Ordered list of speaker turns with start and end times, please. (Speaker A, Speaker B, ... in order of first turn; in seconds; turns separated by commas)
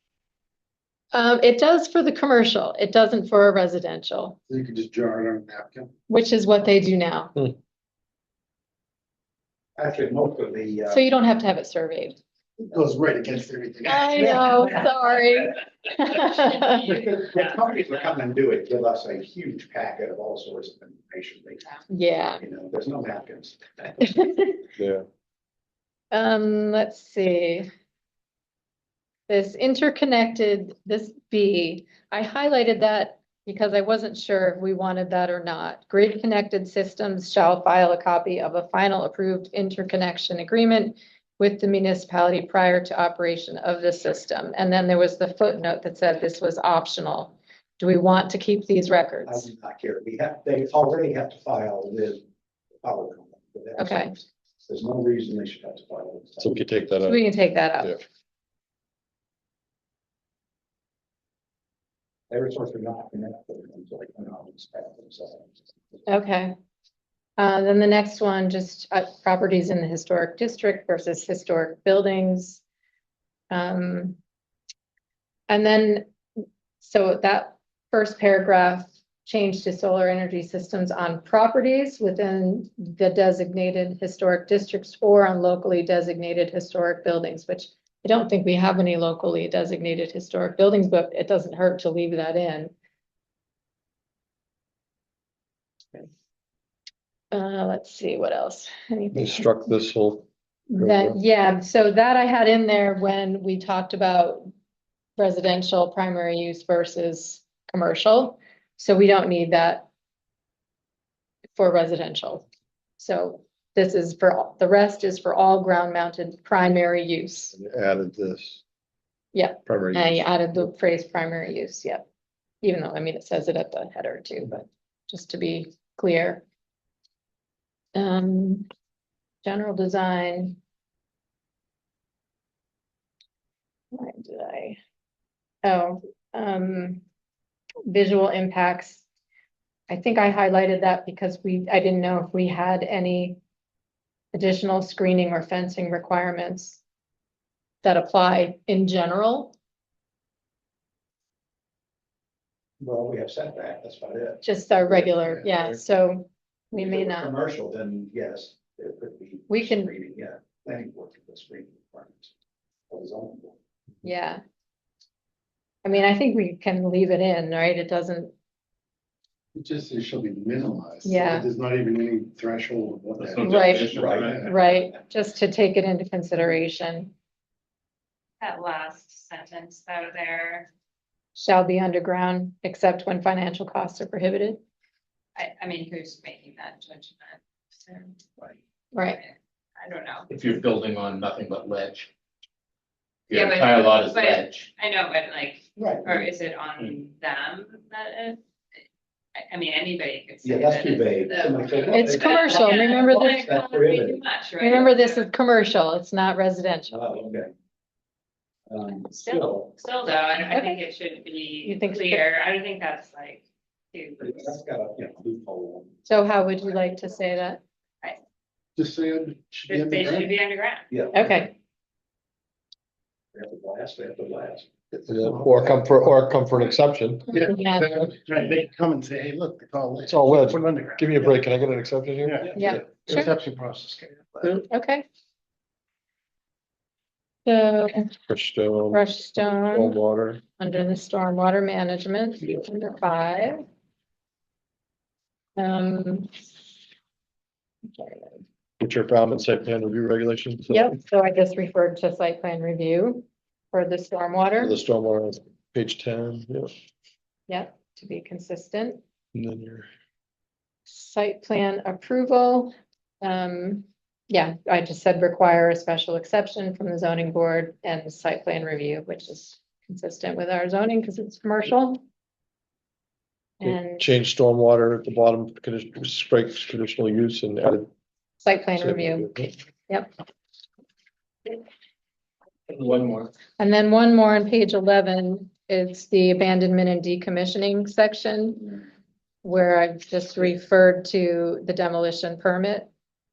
Speaker A: 1.1-4.4, Speaker B: 4.5-5.9, Speaker A: 6.1-7.4, Speaker C: 9.8-11.0, Speaker A: 10.9-12.2, Speaker B: 12.6-14.8, Speaker A: 13.9-17.0, Speaker C: 17.0-21.7, Speaker A: 21.9-22.4, Speaker C: 22.4-24.1, Speaker A: 24.0-24.7, Speaker D: 24.8-25.0, Speaker A: 26.1-27.7, Speaker A: 29.3-49.5, Speaker C: 49.2-52.2, Speaker C: 52.8-56.8, Speaker A: 53.8-54.2, Speaker D: 56.4-57.2, Speaker A: 57.0-58.0, Speaker C: 62.3-65.5, Speaker A: 66.0-66.5, Speaker A: 67.4-72.6, Speaker A: 73.5-74.2, Speaker A: 75.5-76.1, Speaker A: 76.8-92.7, Speaker A: 97.3-99.7, Speaker D: 99.1-100.3, Speaker A: 100.7-104.5, Speaker D: 100.8-101.2, Speaker A: 105.2-109.9, Speaker A: 111.5-112.5, Speaker A: 113.0-117.5, Speaker D: 117.5-118.6, Speaker A: 119.3-122.1, Speaker D: 119.7-120.2, Speaker A: 122.6-126.4, Speaker A: 127.9-128.7, Speaker A: 129.4-130.6, Speaker A: 133.9-134.8, Speaker A: 135.6-137.0, Speaker A: 137.8-139.1, Speaker A: 139.9-143.4, Speaker A: 144.3-146.8, Speaker A: 147.8-149.5, Speaker C: 152.8-155.0, Speaker A: 154.4-157.3, Speaker C: 156.7-162.3, Speaker A: 159.5-159.9, Speaker C: 162.9-163.6, Speaker A: 164.0-164.4, Speaker A: 165.8-168.3, Speaker B: 169.5-174.5, Speaker A: 171.0-171.4, Speaker E: 173.2-174.5, Speaker A: 173.4-177.1, Speaker C: 173.9-175.0, Speaker F: 178.4-180.7, Speaker A: 181.3-184.6, Speaker F: 185.3-188.1, Speaker A: 188.9-189.2, Speaker F: 189.1-190.3, Speaker E: 190.3-192.1, Speaker E: 193.3-194.7, Speaker F: 193.3-198.4, Speaker C: 195.8-196.3, Speaker F: 199.3-205.3, Speaker C: 200.4-204.2, Speaker A: 201.9-203.4, Speaker A: 204.6-206.9, Speaker C: 206.9-207.5, Speaker C: 208.7-209.7, Speaker F: 209.0-214.6, Speaker A: 210.5-210.8, Speaker A: 211.6-212.3, Speaker C: 214.2-216.0, Speaker A: 216.1-217.6, Speaker B: 218.8-220.3, Speaker F: 219.7-220.9, Speaker C: 220.9-221.4, Speaker A: 221.1-221.5, Speaker C: 223.3-224.7, Speaker B: 224.9-225.9, Speaker D: 225.1-227.4, Speaker B: 227.3-231.4, Speaker A: 227.4-227.9, Speaker D: 230.1-232.7, Speaker B: 232.2-234.6, Speaker A: 232.5-233.3, Speaker A: 234.7-235.0, Speaker A: 237.4-238.2, Speaker D: 238.3-239.0, Speaker A: 238.9-240.0, Speaker D: 239.5-240.4, Speaker A: 240.6-243.7, Speaker A: 245.6-246.3, Speaker A: 247.8-248.4, Speaker D: 248.8-250.9, Speaker A: 250.7-254.8, Speaker D: 254.6-256.7, Speaker A: 257.5-259.0, Speaker D: 259.3-259.9, Speaker A: 260.9-272.0, Speaker A: 273.6-274.1, Speaker D: 273.6-277.9, Speaker A: 278.4-280.1, Speaker D: 278.8-279.5, Speaker E: 282.7-283.3, Speaker A: 283.6-288.8, Speaker A: 289.4-292.9